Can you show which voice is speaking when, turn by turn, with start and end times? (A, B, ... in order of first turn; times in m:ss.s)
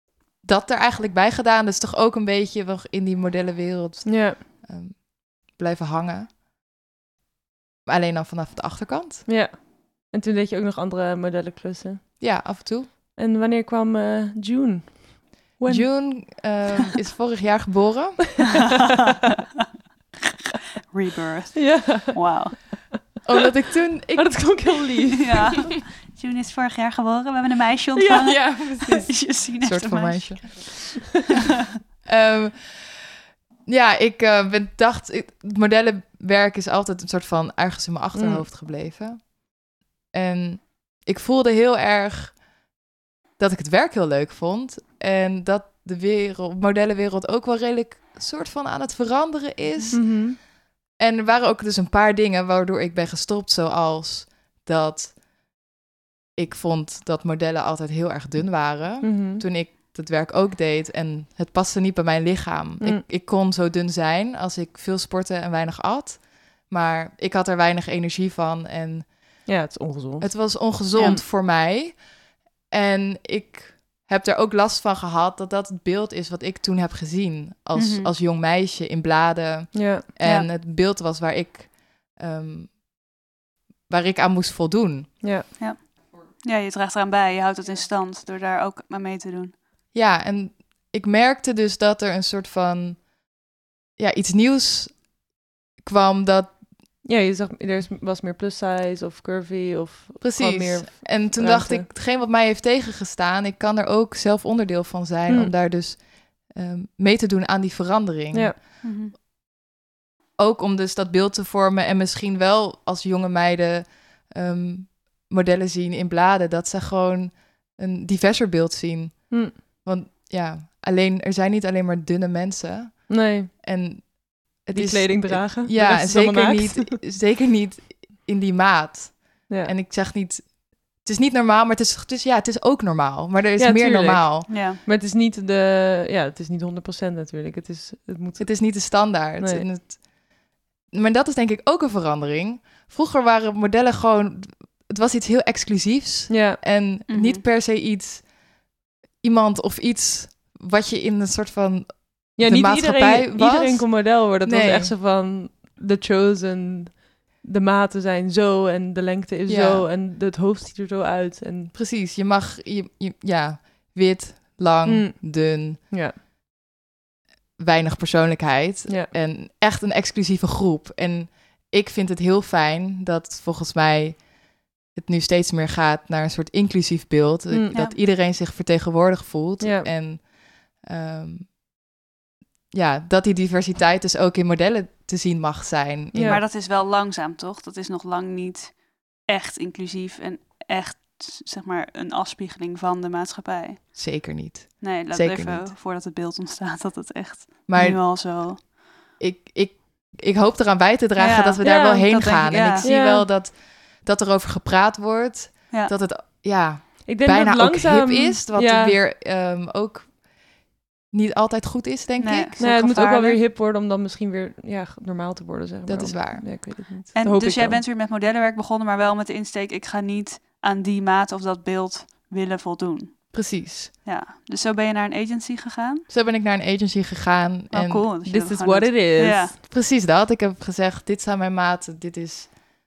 0:00.4-0:06.3 A
0:04.0-0:04.4 B
0:07.8-0:09.3 A
0:09.3-0:12.2 B
0:12.2-0:12.9 A
0:13.1-0:16.4 B
0:15.6-0:18.7 A
0:20.9-0:23.0 C
0:21.5-0:22.4 B
0:23.2-0:25.4 A
0:24.2-0:25.7 B
0:25.2-0:31.2 C
0:28.0-0:28.2 B
0:28.2-0:31.0 A
0:32.0-0:39.4 A
0:38.1-0:38.5 B
0:40.1-0:42.4 A
0:43.4-0:55.2 A
0:49.9-0:50.4 B
0:56.4-1:09.5 A
0:59.0-0:59.4 B
1:09.4-1:11.2 B
1:10.2-1:12.1 A
1:10.9-1:11.2 C
1:12.7-1:22.8 A
1:17.7-1:18.1 C
1:19.7-1:20.0 B
1:23.9-1:25.2 A
1:25.2-1:25.4 B
1:25.6-1:29.5 C
1:29.9-1:33.1 A
1:34.0-1:35.1 A
1:35.8-1:36.6 A
1:37.0-1:41.9 B
1:40.2-1:48.6 A
1:48.3-1:48.6 B
1:48.8-1:49.1 C
1:50.4-2:14.5 A
1:59.3-1:59.5 B
2:03.1-2:03.5 B
2:04.7-2:07.0 B
2:09.5-2:09.7 B
2:13.6-2:19.7 B
2:14.5-2:14.8 C
2:18.4-2:20.2 A
2:20.9-2:28.3 A
2:26.3-2:26.6 B
2:27.1-2:27.4 C
2:29.2-2:34.9 A
2:32.4-2:41.7 B
2:39.5-2:39.9 A
2:41.7-2:45.8 A
2:44.8-2:46.2 B
2:47.6-3:01.6 A
2:57.5-2:57.8 B
2:59.6-2:59.9 B
3:02.7-3:06.4 A
3:06.1-3:06.4 B
3:06.2-3:13.9 C
3:14.0-3:15.7 A
3:14.8-3:18.6 C
3:17.7-3:18.2 A
3:19.2-3:30.2 A
3:21.2-3:22.9 C
3:21.6-3:22.2 B
3:22.8-3:23.3 B
3:27.0-3:29.0 B
3:31.1-3:33.1 A
3:32.2-3:33.4 C
3:32.6-3:37.8 B
3:35.8-3:36.7 A
3:37.2-3:46.1 C
3:43.3-3:44.0 A
3:46.1-3:48.1 A
3:47.7-3:49.6 C
3:48.2-3:49.5 B
3:49.6-3:52.6 A